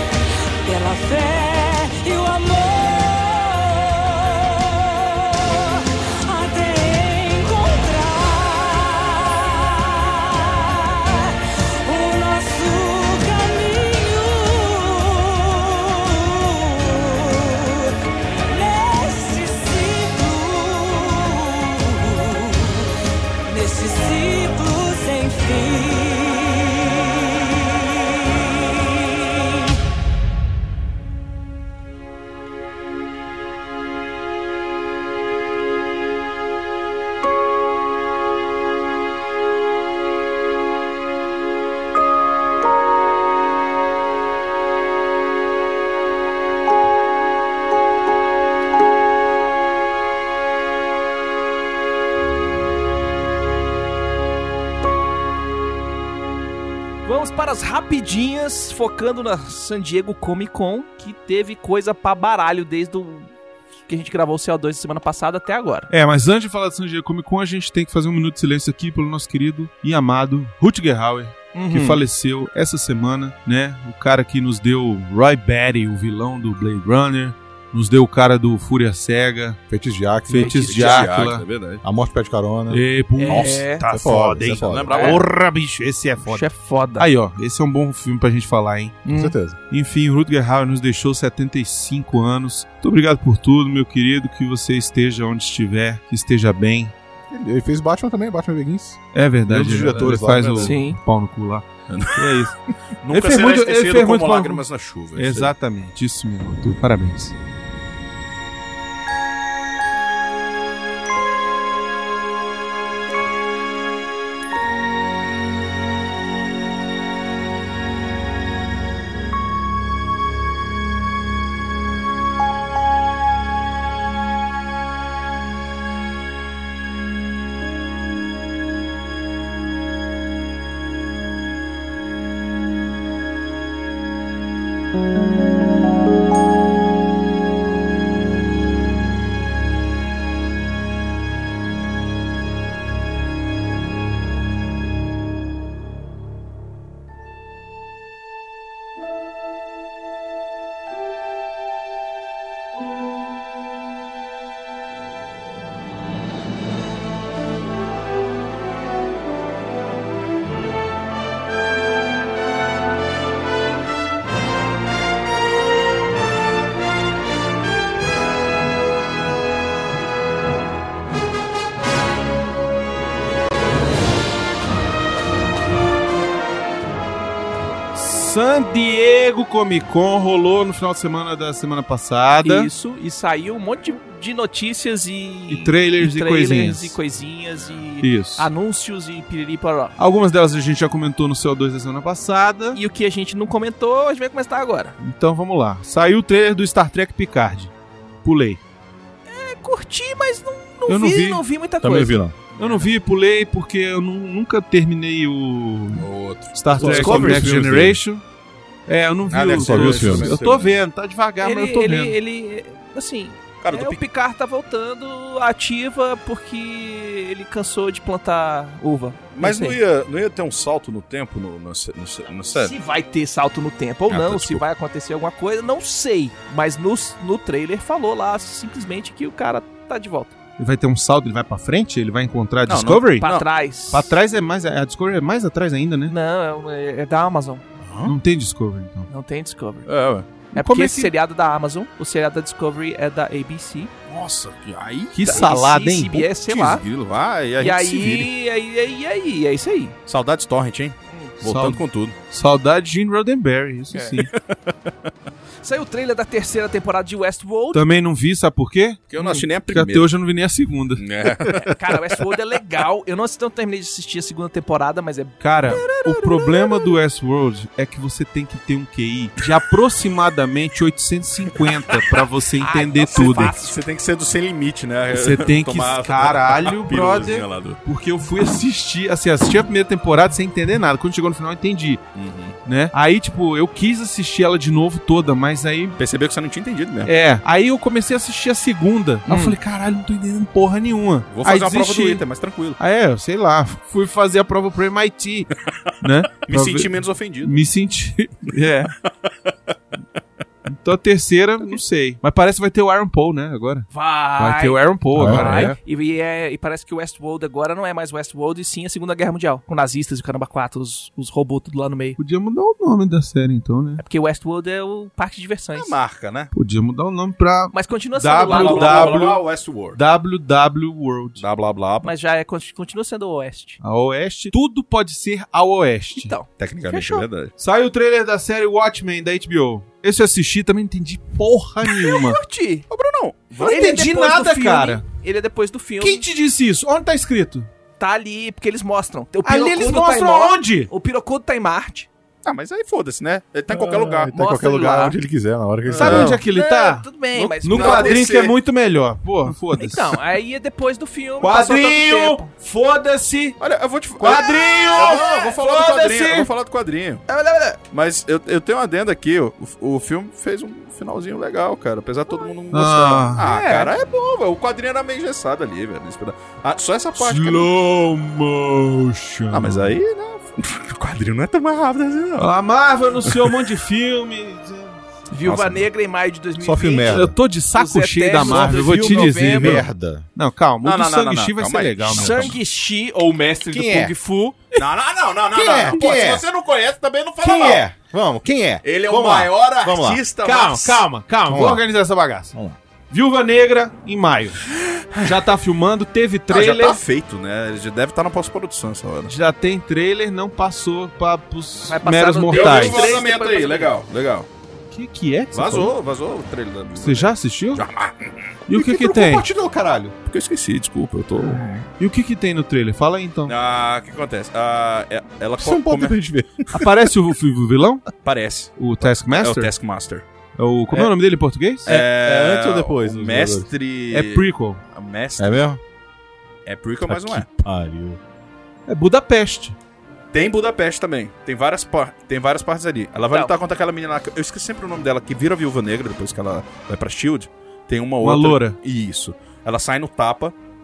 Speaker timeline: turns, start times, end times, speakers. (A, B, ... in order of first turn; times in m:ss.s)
0:00.6-0:17.8 A
0:12.1-0:12.9 B
0:18.5-0:22.8 A
0:23.5-0:27.2 A
0:57.0-1:03.3 B
1:03.9-1:05.9 B
1:05.9-1:19.6 C
1:11.5-1:12.0 B
1:19.7-1:21.0 D
1:20.3-1:21.4 C
1:20.4-1:21.1 B
1:20.5-1:21.8 E
1:21.8-1:22.8 D
1:22.7-1:26.4 C
1:23.2-1:23.8 B
1:23.3-1:23.6 E
1:23.8-1:25.0 D
1:24.6-1:25.2 E
1:24.9-1:25.2 B
1:26.2-1:27.0 B
1:27.0-1:29.0 C
1:29.0-1:29.3 B
1:29.1-1:29.6 D
1:29.7-1:36.9 C
1:37.3-1:40.8 D
1:39.1-1:42.6 C
1:40.6-1:41.0 B
1:41.9-1:42.4 E
1:43.0-1:45.5 E
1:43.1-1:44.6 C
1:45.2-1:47.3 C
2:57.9-3:02.7 C
3:02.4-3:09.9 B
3:05.5-3:07.0 C
3:08.0-3:08.5 C
3:10.0-3:12.8 C
3:12.7-3:15.0 B
3:15.0-3:17.7 C
3:18.2-3:18.6 C
3:19.3-3:22.2 B
3:20.9-3:21.4 C
3:21.8-3:22.3 D
3:22.6-3:28.2 C
3:25.9-3:27.4 E
3:26.7-3:28.0 D
3:26.9-3:27.5 B
3:28.9-3:32.2 C
3:29.3-3:30.8 E
3:29.5-3:30.4 D
3:31.4-3:39.8 B
3:33.6-3:34.0 E
3:39.3-3:42.7 E
3:42.6-3:50.3 B
3:44.1-3:44.6 E
3:50.6-3:53.3 C
3:52.7-3:53.4 E
3:53.2-3:54.1 B
3:53.9-3:56.1 C
3:56.1-3:57.6 B
3:57.8-3:58.1 E
3:58.0-3:59.1 C
3:59.1-3:59.9 B
3:59.9-4:00.3 E
4:00.5-4:03.9 B
4:00.5-4:01.1 C
4:04.1-4:05.5 E
4:05.1-4:06.3 C
4:05.2-4:06.8 B
4:06.5-4:08.3 E
4:07.6-4:09.9 B
4:10.1-4:12.1 E
4:11.1-4:11.3 B
4:11.4-4:14.3 C
4:13.9-4:14.2 B
4:14.5-4:14.7 E
4:15.6-4:17.8 B
4:17.7-4:19.0 C
4:19.1-4:20.1 E
4:19.2-4:19.5 B
4:19.7-4:21.3 C
4:21.0-4:21.7 E
4:21.5-4:26.9 B
4:25.4-4:33.5 C
4:32.6-4:33.8 B
4:33.0-4:37.8 E
4:35.1-4:42.0 C
4:42.1-4:42.6 E
4:42.6-4:46.0 C
4:46.0-4:47.1 E
4:47.0-4:52.2 C
4:49.3-4:49.6 B
4:51.3-4:52.8 E
4:52.8-4:55.5 C
4:56.0-4:58.9 C
4:56.4-4:57.6 E
4:59.0-4:59.7 E
5:00.6-5:05.8 C
5:03.9-5:12.2 B
5:05.1-5:05.7 D
5:12.2-5:14.0 C
5:14.0-5:16.0 B
5:15.7-5:16.5 E
5:16.5-5:19.4 C
5:17.7-5:19.2 B
5:18.4-5:20.0 E
5:19.9-5:21.4 C
5:21.4-5:22.1 E
5:22.0-5:23.8 B
5:23.8-5:26.3 C
5:26.2-5:27.3 B
5:26.6-5:27.5 E
5:27.6-5:32.4 C
5:31.9-5:32.9 B
5:32.9-5:33.9 E
5:33.6-5:36.2 B
5:33.6-5:35.0 C
5:36.0-5:37.7 C
5:38.0-5:42.1 B
5:39.4-5:40.9 C
5:42.4-5:44.3 E
5:43.7-5:46.4 D
5:44.3-5:45.2 B
5:45.8-5:46.4 E
5:45.9-5:50.2 C
5:46.5-5:48.2 B
5:47.6-5:48.5 E
5:49.8-5:52.5 B
5:51.4-5:53.6 C
5:53.6-5:57.2 E
5:54.2-5:56.5 C
5:54.3-5:55.4 B
5:57.3-5:57.8 B
5:57.8-6:07.7 E
6:02.7-6:03.4 C
6:03.4-6:03.9 B
6:07.2-6:10.0 C
6:09.5-6:12.5 E
6:12.4-6:15.0 C
6:15.3-6:19.8 B
6:15.4-6:15.8 E
6:16.6-6:17.3 D
6:17.1-6:22.6 C
6:18.4-6:20.2 D
6:20.8-6:22.6 E
6:22.1-6:24.8 B
6:23.7-6:24.1 D
6:24.8-6:27.9 E
6:25.5-6:26.4 D
6:27.4-6:30.2 D
6:28.8-6:31.1 E
6:30.4-6:32.5 C
6:31.5-6:31.8 D
6:33.1-6:34.6 C
6:35.2-6:37.0 C
6:36.5-6:39.3 E
6:39.3-6:43.0 C
6:41.9-6:43.9 B
6:42.5-6:44.5 E
6:44.9-6:45.9 C
6:45.5-6:48.6 E
6:46.9-6:47.8 C
6:48.7-6:49.5 C
6:48.7-6:50.1 D
6:50.2-6:51.8 E
6:52.0-6:53.5 C
6:53.4-6:56.2 E
6:55.6-6:56.7 D
6:56.7-6:58.0 C
6:58.2-7:00.2 E
6:58.8-6:59.7 C
7:00.6-7:01.9 C
7:01.8-7:05.6 E
7:01.8-7:03.7 D
7:04.1-7:04.8 C
7:05.4-7:05.8 D
7:06.6-7:07.5 E
7:07.1-7:08.2 D
7:08.9-7:09.8 C
7:10.3-7:20.6 E
7:13.3-7:13.5 B
7:18.2-7:18.8 C